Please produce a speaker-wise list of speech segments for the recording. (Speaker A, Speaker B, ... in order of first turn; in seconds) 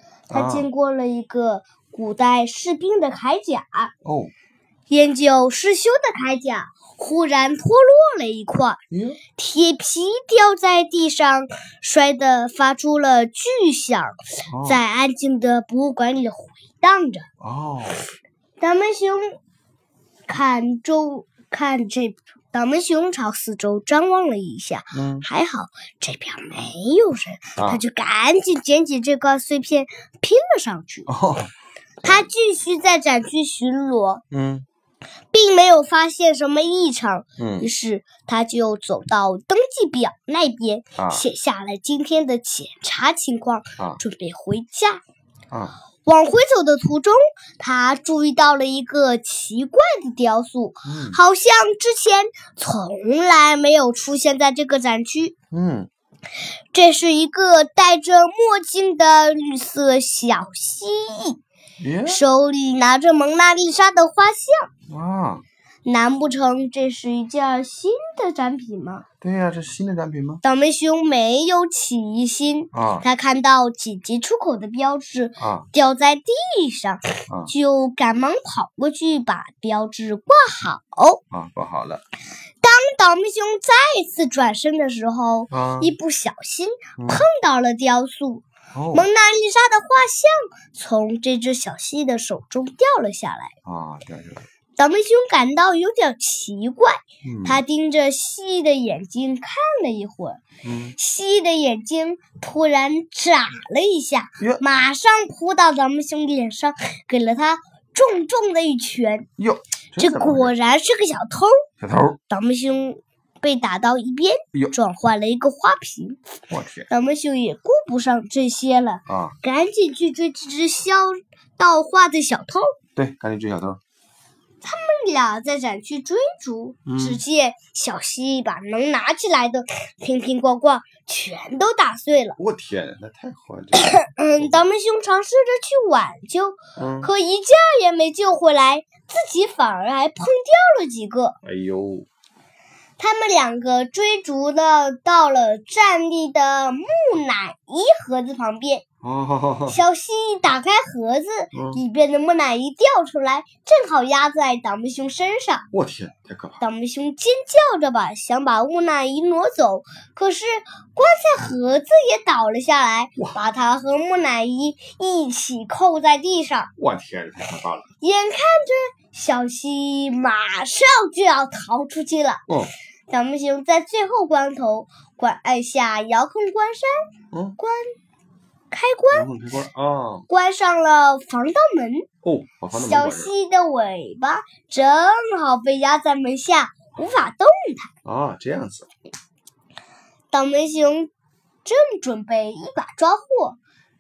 Speaker A: 0.3-0.7, 4.0-4.3, 8.9-9.2, 14.5-14.8, 17.4-18.1, 24.9-25.3, 31.1-31.5, 32.0-32.3, 34.3-34.6, 37.4-37.7, 41.0-41.2, 45.5-45.8, 50.9-51.2, 55.5-55.9, 61.8-62.2, 64.9-65.4, 69.2-70.4, 72.7-73.1, 75.4-75.7, 81.3-82.0, 85.5-85.9, 87.0-87.3, 88.7-89.1, 93.7-94.5, 97.2-97.6, 100.6-101.0, 109.4-110.5, 111.8-112.2, 116.5-116.9, 119.1-119.4, 123.0-123.8, 126.9-127.2, 132.4-134.6, 136.8-137.1, 141.4-142.1, 149.0-149.8, 151.5-151.8, 155.7-156.6, 166.8-167.9, 172.5-172.7, 177.3-177.6, 179.1-180.3, 182.2-183.3, 188.1-188.9
Speaker B: 0.3-3.9, 4.9-8.8, 9.3-17.3, 18.6-19.4, 20.3-31.1, 32.0-34.2, 35.3-45.0, 46.1-55.4, 56.7-61.4, 62.1-64.7, 65.8-69.1, 70.4-81.2, 82.6-93.5, 94.8-100.4, 101.0-109.3, 110.0-111.6, 112.3-116.2, 116.9-122.7, 124.6-132.4, 133.7-141.4, 143.0-148.8, 149.7-155.7, 156.6-166.7, 168.0-172.4, 173.1-177.0, 177.6-177.9, 178.7-179.3, 180.3-182.1, 182.7-187.9, 190.3-191.1, 191.7-193.6